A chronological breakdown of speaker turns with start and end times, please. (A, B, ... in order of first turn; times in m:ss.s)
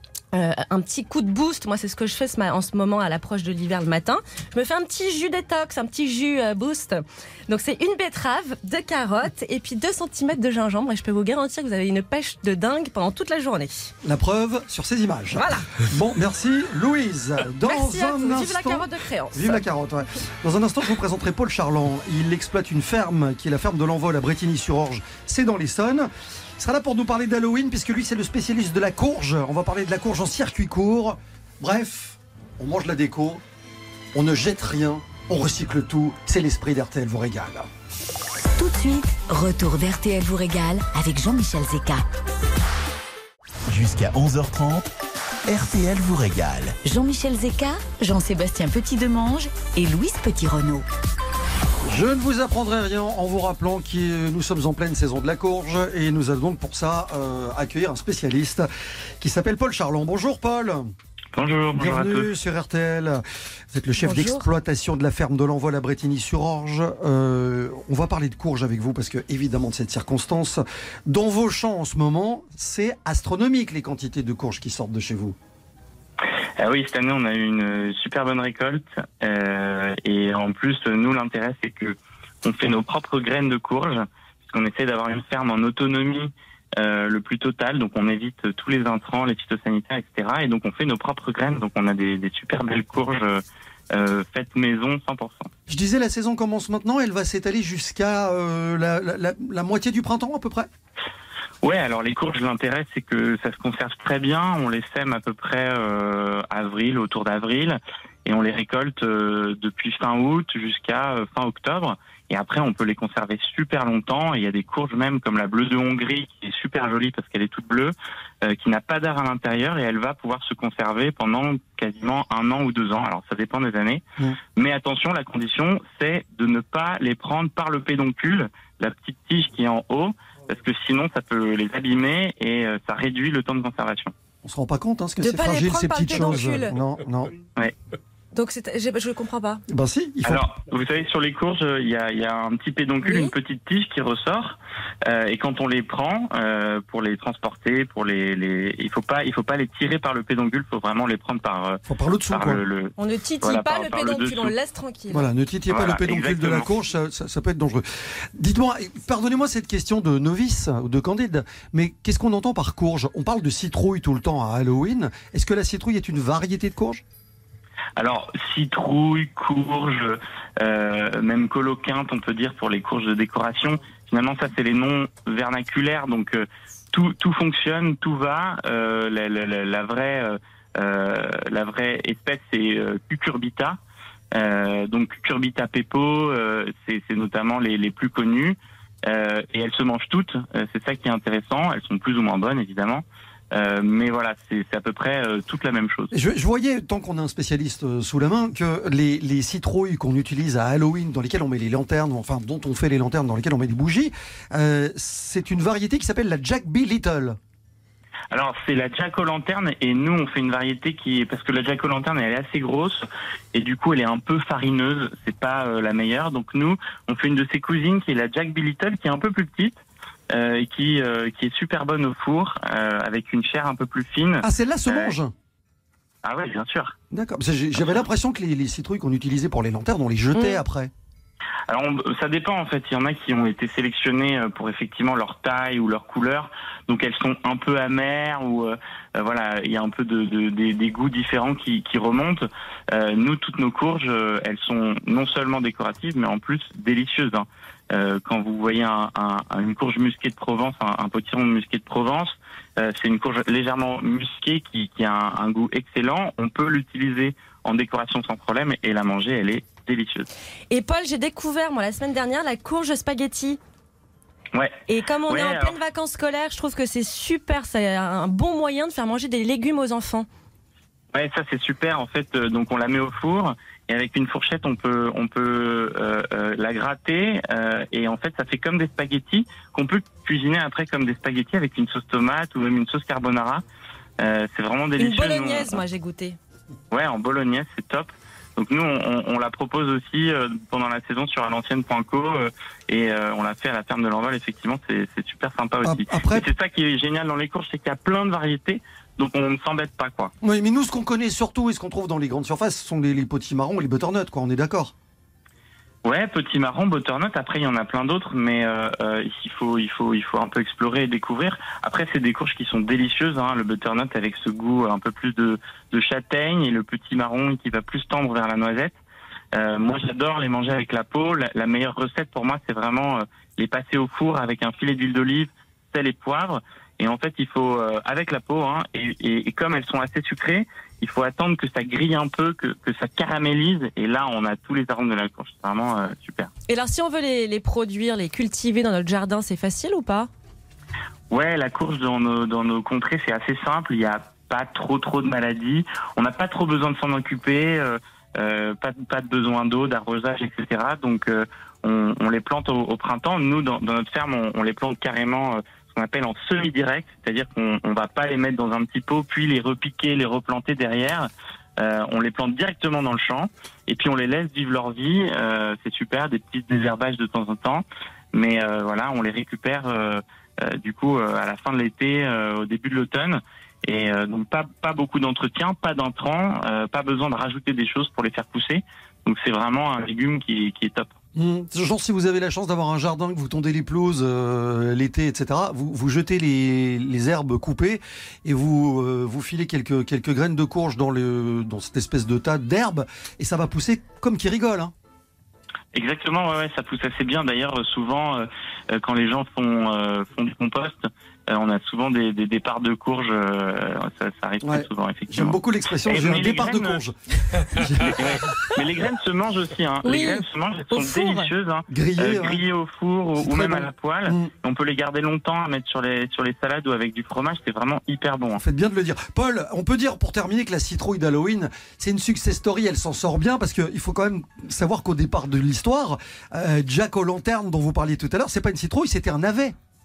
0:00.3-0:13.9 A
0:14.0-0:33.4 B
0:15.4-0:15.7 A
0:17.6-0:19.6 A
0:34.1-0:37.7 B
0:38.6-0:42.0 C
0:43.7-0:44.9 D
0:45.5-0:46.8 D
0:46.8-0:50.9 C
0:51.9-0:58.7 B
0:59.2-1:00.9 B
1:01.4-1:02.3 E
1:01.8-1:15.4 B
1:04.0-1:04.5 A
1:16.6-1:33.4 E
1:33.9-1:35.5 E
1:35.7-1:40.7 B
1:41.6-2:04.0 E
2:04.6-2:14.1 E
2:14.4-2:17.3 B
2:15.2-2:16.8 A
2:18.3-2:19.6 A
2:19.7-2:20.4 B
2:20.2-2:34.6 E
2:23.0-2:23.3 A
2:31.9-2:32.6 B
2:33.0-2:35.2 A
2:35.1-2:37.8 B
2:35.7-2:36.7 E
2:38.4-2:47.0 B
2:48.0-3:03.8 E
3:04.3-3:16.1 E
3:16.1-3:27.4 B
3:28.3-3:39.8 E
3:40.3-3:45.2 E
3:44.4-3:45.3 B
3:46.2-3:46.9 E
3:47.1-3:50.9 B
3:50.3-3:50.6 A
3:51.7-4:20.3 E
4:20.7-4:23.6 A
4:24.5-4:25.8 E
4:24.9-4:30.3 A
4:31.1-4:43.6 E
4:44.2-4:45.8 E
4:45.0-4:46.4 A
4:46.9-5:00.3 E
4:55.8-4:56.5 B
5:00.4-5:04.9 B
5:06.0-5:19.0 E
5:19.6-5:36.5 E
5:36.7-5:40.3 A
5:41.3-6:21.1 E
6:21.4-6:34.9 B
6:35.9-6:47.0 E
6:44.6-6:48.7 B
6:48.1-6:58.6 E
6:50.0-6:51.5 A
6:51.9-6:52.6 B
6:53.4-6:54.5 B
6:58.6-7:09.8 B